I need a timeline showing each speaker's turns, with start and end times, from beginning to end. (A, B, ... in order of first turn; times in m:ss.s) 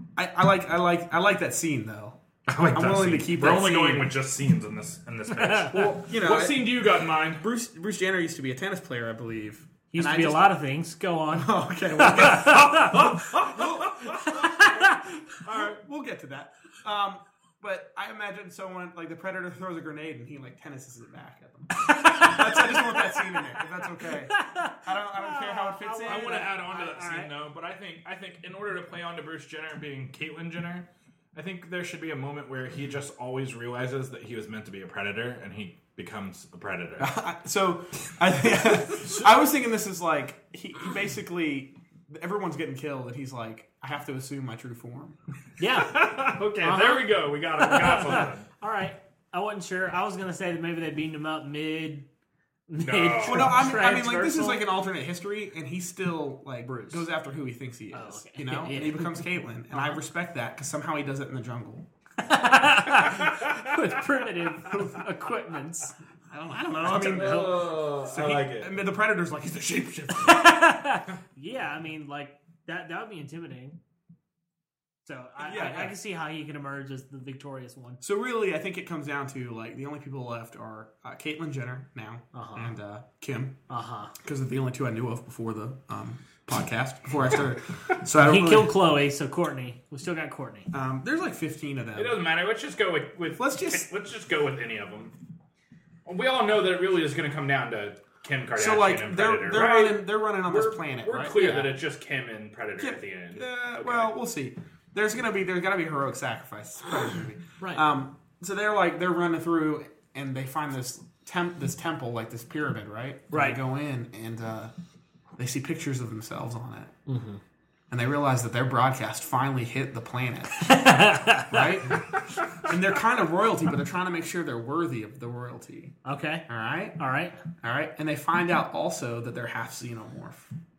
0:00.2-0:02.2 A
0:02.5-0:07.5 B
0:02.7-0:04.1 A
0:05.4-0:05.8 C
0:05.7-0:10.5 A
0:09.9-0:13.0 C
0:11.3-0:26.6 A
0:12.4-0:15.8 B
0:14.2-0:15.0 C
0:22.1-0:22.4 C
0:24.0-0:27.3 C
0:26.0-0:37.1 B
0:37.0-0:45.2 A
0:39.0-0:39.3 B
0:45.6-0:46.0 C
0:45.8-0:48.5 B
0:46.6-0:52.1 C
0:52.7-0:54.6 C
0:52.8-0:53.7 B
0:53.2-1:01.9 A
0:56.6-0:57.1 C
0:57.9-1:00.0 C
1:02.2-1:05.9 C
1:03.0-1:03.9 B
1:06.3-1:10.8 A
1:06.8-1:08.7 B
1:10.2-1:13.8 C
1:15.0-1:18.0 C
1:15.4-1:16.0 A
1:18.0-1:23.6 A
1:22.3-1:22.7 C
1:23.7-1:24.1 C
1:24.2-1:28.7 A
1:28.2-1:30.7 C
1:30.7-1:32.2 A
1:32.0-1:35.2 B
1:33.4-1:33.9 A
1:36.1-1:44.1 B
1:38.6-1:41.7 A
1:42.8-1:54.7 A
1:47.6-1:47.9 C
1:53.3-1:53.6 C
1:55.4-1:56.9 A
1:57.1-1:57.4 C
1:57.9-2:00.8 A
2:00.6-2:01.7 C
2:01.5-2:06.0 A
2:06.0-2:06.4 C
2:06.5-2:07.0 A
2:07.0-2:07.4 C
2:07.6-2:10.5 A